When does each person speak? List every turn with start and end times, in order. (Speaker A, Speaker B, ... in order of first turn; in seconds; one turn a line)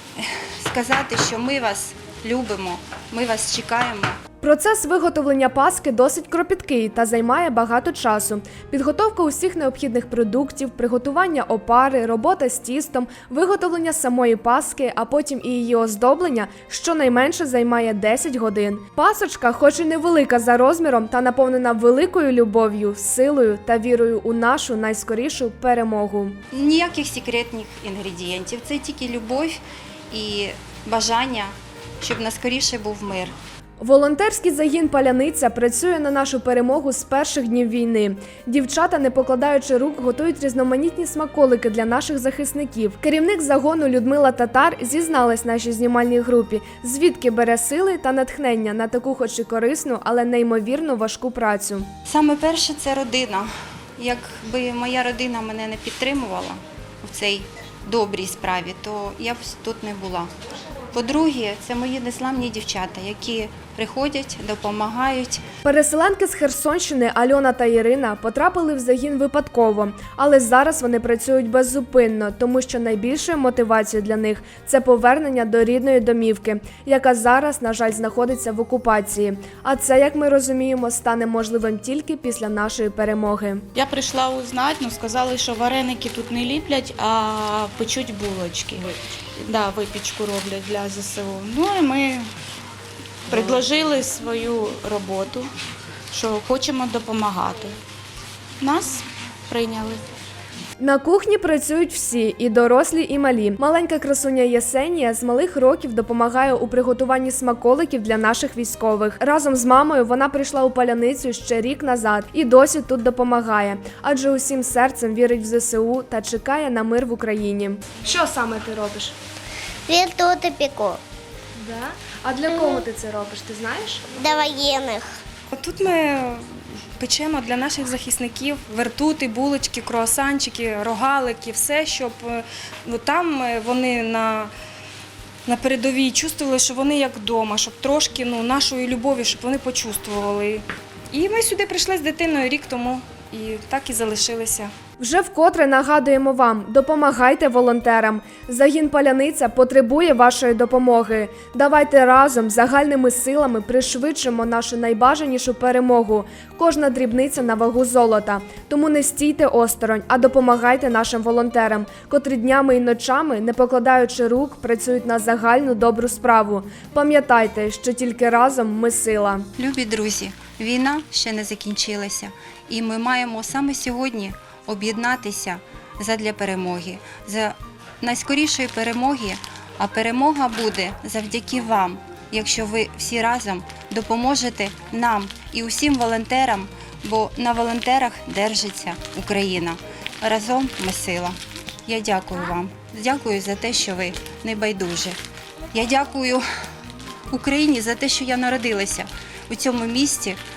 Speaker A: 0.2-4.2
Speaker B: 4.4-26.4
Speaker A: 26.5-29.6
Speaker A: 30.1-33.3
Speaker B: 33.8-51.9
Speaker A: 52.1-60.3
Speaker A: 60.9-65.4
Speaker B: 65.6-83.7
Speaker C: 83.8-92.3
Speaker C: 93.3-95.5
Speaker C: 96.1-97.8
Speaker C: 98.6-100.0
Speaker B: 100.8-119.2
Speaker D: 119.9-121.0
Speaker B: 121.6-124.0
Speaker D: 124.2-125.1
Speaker E: 125.5-126.5
Speaker E: 127.0-134.5
Speaker E: 135.5-144.7
Speaker B: 145.0-169.5
Speaker A: 169.6-195.2
Speaker A: 195.7-196.4
Speaker A: 197.3-200.4